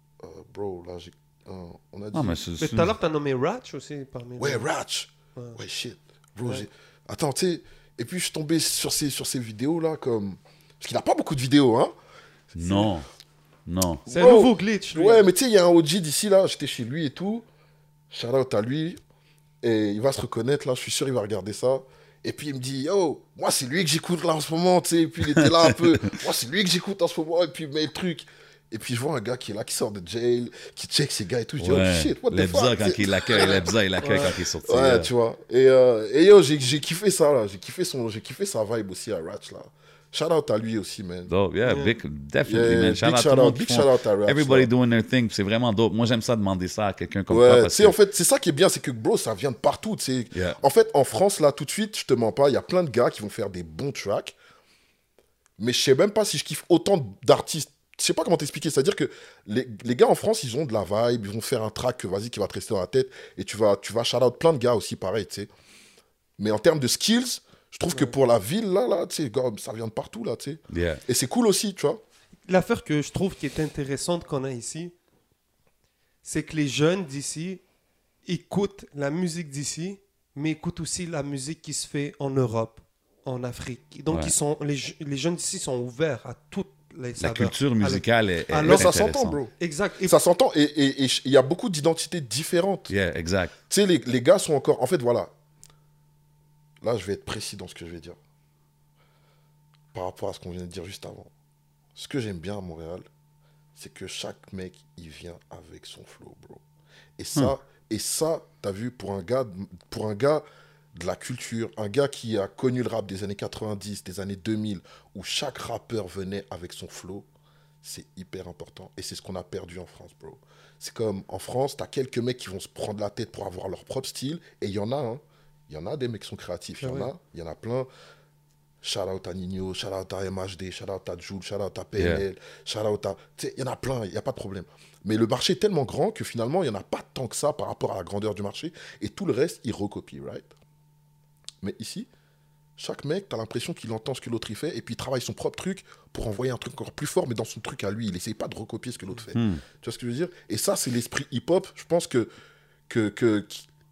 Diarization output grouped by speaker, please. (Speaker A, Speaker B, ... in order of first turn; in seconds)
Speaker A: 0.2-2.4, 4.4-11.9, 14.1-17.4, 18.1-19.0, 19.6-41.3, 42.5-44.7, 47.3-54.4, 55.6-65.5, 66.4-72.0, 88.6-89.5, 90.0-92.9, 93.7-95.3, 96.8-98.2, 99.9-101.3, 101.9-103.0, 103.7-106.6, 107.2-117.3, 117.8-127.9, 128.8-140.5, 141.6-142.1, 142.8-152.3, 152.9-153.7
Speaker B: 2.1-2.9, 12.5-13.1, 13.7-14.0, 25.3-26.1, 31.6-35.1, 41.3-47.9, 50.3-50.6, 70.7-71.0, 87.2-89.4, 92.9-93.5, 132.0-132.2, 149.3-149.6
Speaker C: 2.6-4.7, 14.1-15.2, 34.0-34.3, 41.6-41.9, 72.5-74.9, 76.2-77.6, 78.2-88.9, 89.6-90.1, 126.8-127.1